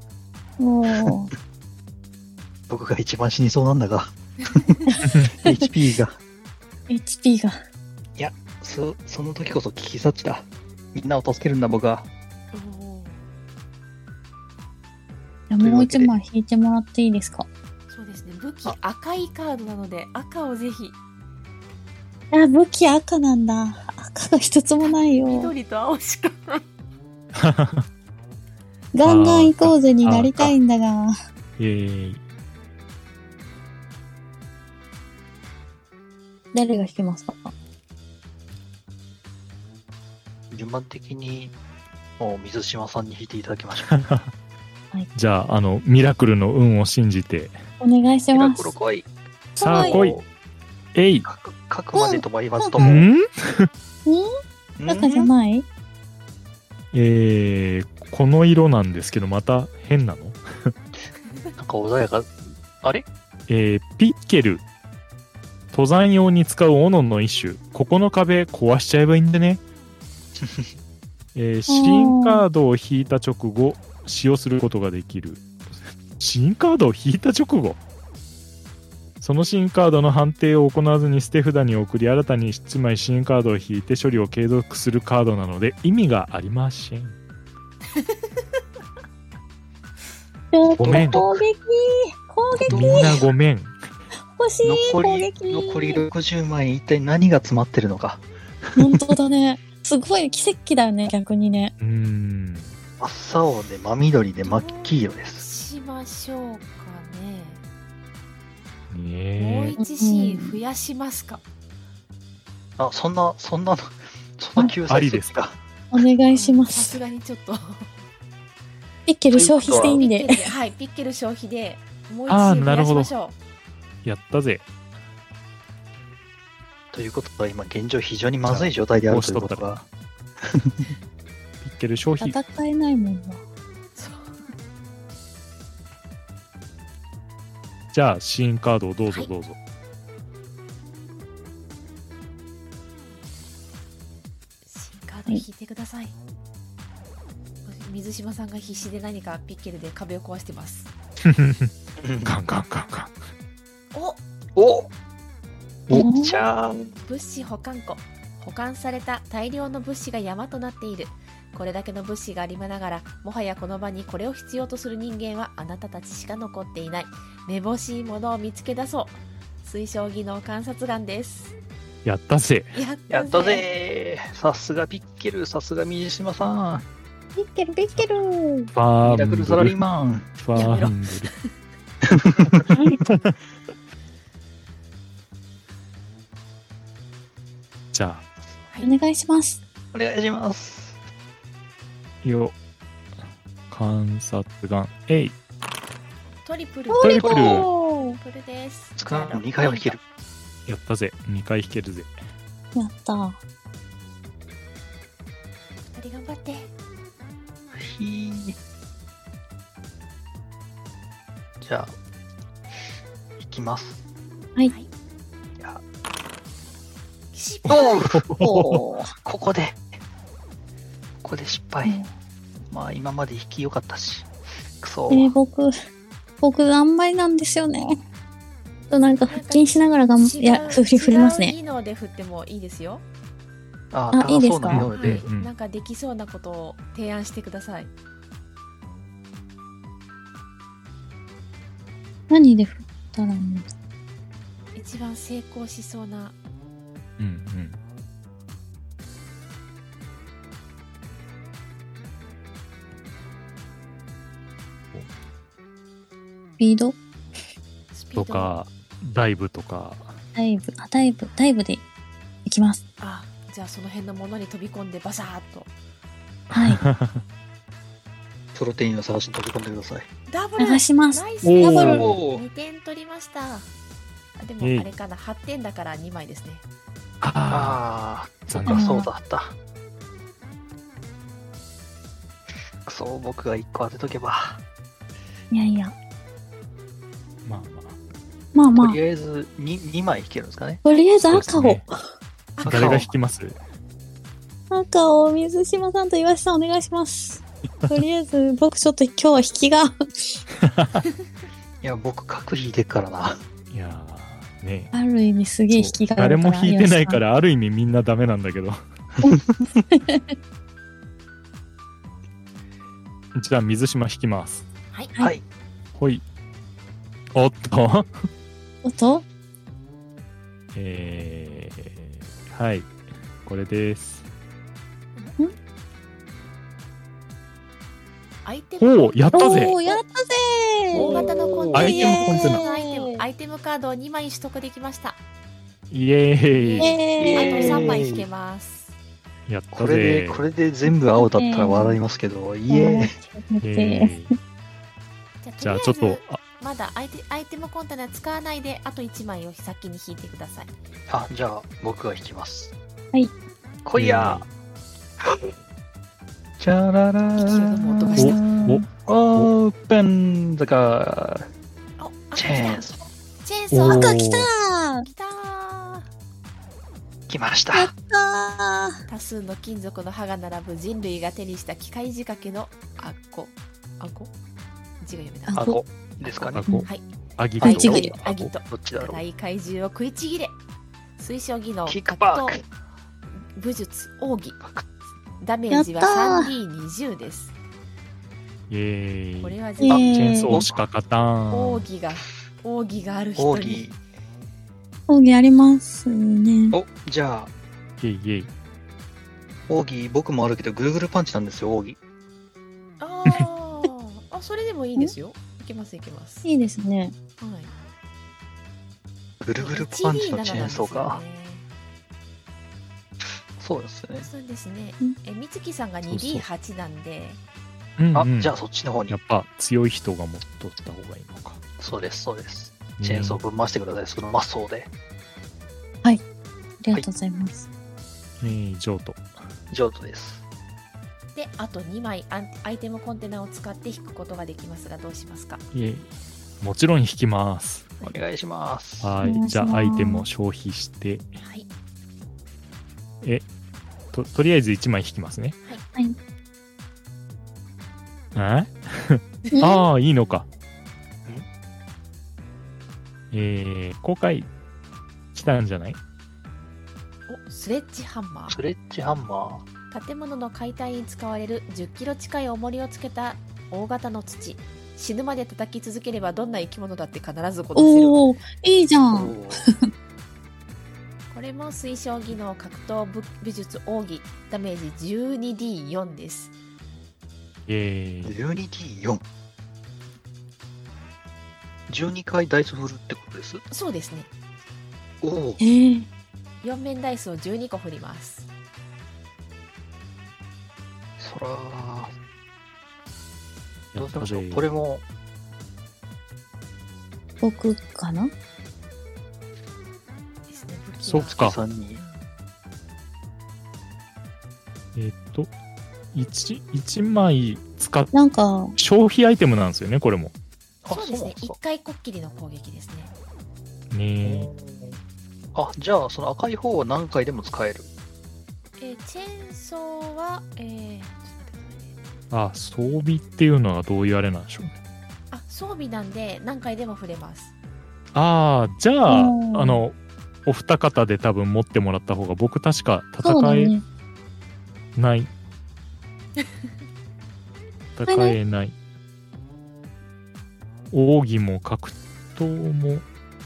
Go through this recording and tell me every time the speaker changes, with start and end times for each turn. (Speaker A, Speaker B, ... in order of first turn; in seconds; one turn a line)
Speaker A: 0.6-1.3
Speaker B: 2.7-6.2
Speaker A: 4.9-5.7
Speaker C: 5.1-5.3
Speaker A: 6.9-7.6
Speaker B: 8.2-12.1
Speaker D: 12.5-13.2
Speaker A: 15.5-17.5
Speaker B: 15.6-16.1
Speaker D: 17.9-20.9
Speaker A: 22.3-25.5
Speaker D: 24.8-26.6
Speaker C: 27.3-27.9
Speaker A: 28.9-31.1
Speaker C: 29.0-30.5
Speaker C: 31.6-32.2
Speaker A: 36.5-37.5
Speaker B: 40.5-41.5
Speaker B: 42.2-44.0
Speaker C: 43.9-44.3
Speaker C: 45.1-47.6
Speaker A: 47.8-48.8
Speaker B: 48.3-49.1
Speaker A: 49.6-50.0
Speaker C: 49.6-50.2
Speaker B: 49.7-50.2
Speaker C: 50.9-51.3
Speaker B: 51.2-53.1
Speaker A: 51.9-53.1
Speaker C: 52.8-53.7
Speaker B: 54.8-55.3
Speaker A: 54.9-55.6
Speaker C: 56.9-60.7
Speaker B: 61.6-63.1
Speaker C: 63.5-64.6
Speaker C: 65.7-69.6
Speaker B: 70.4-70.7
Speaker C: 71.3-77.8
Speaker A: 71.7-72.5
Speaker C: 79.2-87.2
Speaker D: 87.9-88.3
Speaker A: 90.5-93.1
Speaker B: 90.7-91.4
Speaker C: 90.7-91.2
Speaker B: 92.6-93.3
Speaker C: 92.6-93.8
Speaker A: 94.3-96.0
Speaker B: 94.6-98.8
Speaker A: 98.8-101.7
Speaker C: 101.8-102.8
Speaker B: 103.0-105.5
Speaker D: 104.4-107.6
Speaker C: 108.9-109.7
Speaker D: 109.4-111.4
Speaker A: 109.8-110.6
Speaker B: 112.8-115.6
Speaker C: 114.9-115.4
Speaker A: 115.9-117.0
Speaker D: 116.3-117.9
Speaker A: 119.1-120.4
Speaker B: 119.3-120.0
Speaker D: 119.6-123.4
Speaker C: 122.3-123.1
Speaker C: 124.0-124.6
Speaker B: 126.9-129.8
Speaker C: 128.4-129.9
Speaker B: 130.4-130.9
Speaker C: 131.6-132.4
Speaker A: 132.2-133.4
Speaker D: 133.9-134.4
Speaker C: 137.9-139.6
Speaker D: 144.6-146.1
Speaker D: 147.6-150.9
Speaker C: 151.2-151.7
Speaker B: 152.0-152.3
Speaker C: 152.2-153.1
Speaker D: 153.9-154.2
Speaker B: 154.6-154.9
Speaker B: 155.9-156.9
Speaker A: 155.9-156.4
Speaker D: 157.0-171.6
Speaker C: 172.0-172.8
Speaker D: 172.7-173.6
Speaker B: 173.1-176.8
Speaker A: 177.3-178.7
Speaker C: 177.9-179.8
Speaker B: 179.0-180.3
Speaker C: 180.4-181.3
Speaker D: 180.5-181.5
Speaker B: 182.2-182.6
Speaker C: 182.4-183.3
Speaker C: 187.9-188.2
Speaker A: 188.8-189.6
Speaker B: 189.9-191.0
Speaker C: 192.2-192.5
Speaker C: 193.7-195.3
Speaker D: 196.4-200.0
Speaker A: 196.9-198.2
Speaker C: 197.0-197.7
Speaker B: 197.2-197.7
Speaker B: 199.0-200.0
Speaker C: 200.7-202.2
Speaker A: 202.7-203.4
Speaker D: 205.8-206.7
Speaker B: 207.7-208.6
Speaker B: 211.6-211.9
Speaker B: 213.4-214.0
Speaker D: 217.3-218.0
Speaker B: 217.7-218.4
Speaker C: 218.1-218.8
Speaker A: 218.4-219.1
Speaker B: 219.2-219.8
Speaker B: 221.2-222.0
Speaker B: 222.7-225.3
Speaker A: 225.1-225.7
Speaker A: 226.4-228.0
Speaker A: 228.9-231.6
Speaker D: 229.3-233.0
Speaker B: 233.9-235.2
Speaker A: 234.1-234.9
Speaker C: 234.7-235.5
Speaker D: 234.9-237.9
Speaker A: 242.3-243.7
Speaker D: 244.7-246.4
Speaker C: 247.2-247.8
Speaker A: 256.6-257.0
Speaker D: 257.9-258.5
Speaker C: 258.1-260.2
Speaker A: 260.3-261.8
Speaker A: 262.4-262.8
Speaker D: 263.0-265.7
Speaker C: 266.5-267.2
Speaker A: 266.5-266.8
Speaker B: 268.5-270.1
Speaker D: 270.3-273.7
Speaker A: 270.6-272.0
Speaker C: 271.4-272.1
Speaker B: 271.7-272.4
Speaker D: 274.4-276.6
Speaker C: 274.6-274.9
Speaker C: 277.2-277.8
Speaker B: 277.5-279.5
Speaker C: 278.5-278.9
Speaker A: 278.7-279.1
Speaker B: 282.8-284.6
Speaker A: 285.5-285.9
Speaker C: 287.4-288.0
Speaker A: 288.5-289.0
Speaker B: 288.8-290.8
Speaker A: 290.8-292.0
Speaker C: 291.2-291.8
Speaker D: 292.5-293.0
Speaker B: 292.6-293.1
Speaker C: 292.6-293.6
Speaker A: 294.7-300.4
Speaker C: 300.6-301.0
Speaker B: 301.8-303.4
Speaker C: 303.7-304.9
Speaker A: 304.9-307.2
Speaker C: 305.7-308.8
Speaker A: 309.2-310.3
Speaker C: 313.3-314.6
Speaker C: 316.0-316.2
Speaker C: 317.3-318.1
Speaker A: 318.8-319.2
Speaker C: 320.7-322.9
Speaker C: 323.4-324.3
Speaker D: 328.4-330.0
Speaker C: 328.8-329.8
Speaker A: 329.3-333.2
Speaker D: 330.9-335.2
Speaker B: 330.9-331.9
Speaker C: 331.7-332.6
Speaker C: 335.9-337.0
Speaker D: 336.5-338.9
Speaker A: 336.8-338.0
Speaker B: 337.2-338.3
Speaker C: 339.5-340.4
Speaker B: 339.7-343.1
Speaker A: 340.8-342.0
Speaker A: 342.7-344.3
Speaker C: 343.6-344.3
Speaker D: 345.4-350.7
Speaker C: 345.6-346.4
Speaker B: 351.1-352.7
Speaker B: 353.8-354.4
Speaker C: 353.9-354.5
Speaker B: 355.2-355.5
Speaker B: 356.6-357.8
Speaker D: 357.4-358.5
Speaker A: 357.9-358.9
Speaker C: 358.2-359.5
Speaker B: 359.0-361.5
Speaker D: 362.0-364.2
Speaker B: 362.3-362.9
Speaker C: 363.7-364.5
Speaker A: 363.9-365.1
Speaker D: 365.0-366.1
Speaker B: 367.3-367.9
Speaker A: 367.7-369.0
Speaker D: 369.1-374.3
Speaker D: 375.0-380.6
Speaker A: 375.5-375.8
Speaker B: 375.5-376.6
Speaker C: 376.6-378.5
Speaker A: 377.6-378.1
Speaker B: 378.7-379.2
Speaker D: 381.2-382.6
Speaker B: 381.9-382.6
Speaker D: 383.5-384.6
Speaker D: 385.4-387.5
Speaker A: 385.7-386.5
Speaker C: 388.7-389.6
Speaker D: 389.4-390.3
Speaker A: 389.8-390.6
Speaker B: 389.9-390.8
Speaker C: 390.1-391.9
Speaker D: 391.5-393.8
Speaker B: 393.4-394.0
Speaker A: 395.1-396.8
Speaker B: 396.7-397.5
Speaker C: 398.0-398.5
Speaker B: 399.7-402.0
Speaker D: 403.0-406.5
Speaker A: 406.4-407.1
Speaker D: 407.4-407.7
Speaker B: 409.4-411.2
Speaker D: 409.6-411.6
Speaker B: 413.6-414.3
Speaker D: 414.2-417.4
Speaker C: 416.1-416.4
Speaker C: 418.0-418.5
Speaker B: 418.1-419.1
Speaker C: 419.1-421.6
Speaker B: 421.8-424.9
Speaker C: 423.0-423.4
Speaker A: 426.8-427.7
Speaker C: 428.4-429.3
Speaker B: 429.7-430.4
Speaker D: 431.3-435.6
Speaker C: 435.7-436.1
Speaker C: 436.6-437.9
Speaker B: 438.0-439.1
Speaker C: 439.0-441.3
Speaker A: 439.2-440.3
Speaker D: 441.4-441.7
Speaker C: 444.1-445.6
Speaker C: 448.3-450.5
Speaker A: 449.5-449.8
Speaker C: 453.3-454.5
Speaker C: 455.3-456.0
Speaker D: 457.3-458.6
Speaker B: 458.5-459.6
Speaker D: 459.9-468.2
Speaker A: 467.7-469.7
Speaker B: 469.1-469.6
Speaker D: 471.3-476.5
Speaker C: 477.7-478.4
Speaker B: 478.2-479.2
Speaker B: 481.9-483.6
Speaker D: 483.7-484.3
Speaker B: 485.2-485.6
Speaker A: 485.6-486.1
Speaker D: 486.6-488.5
Speaker B: 491.2-492.1
Speaker C: 493.9-494.6
Speaker B: 494.0-495.0
Speaker A: 497.4-498.3
Speaker D: 500.5-502.3
Speaker C: 501.1-501.6
Speaker B: 501.3-502.0
Speaker C: 504.9-505.5
Speaker C: 506.1-508.1
Speaker A: 508.1-508.7
Speaker C: 508.8-510.3
Speaker B: 510.8-511.6
Speaker D: 510.9-513.1
Speaker C: 513.9-514.5
Speaker B: 514.2-515.0
Speaker B: 515.5-517.9
Speaker D: 518.8-521.9
Speaker C: 522.3-524.8
Speaker D: 525.3-527.5
Speaker C: 528.1-533.7
Speaker A: 529.0-529.8
Speaker A: 533.2-533.8
Speaker C: 535.0-535.3
Speaker C: 538.0-538.8
Speaker A: 538.1-538.4
Speaker C: 540.9-543.0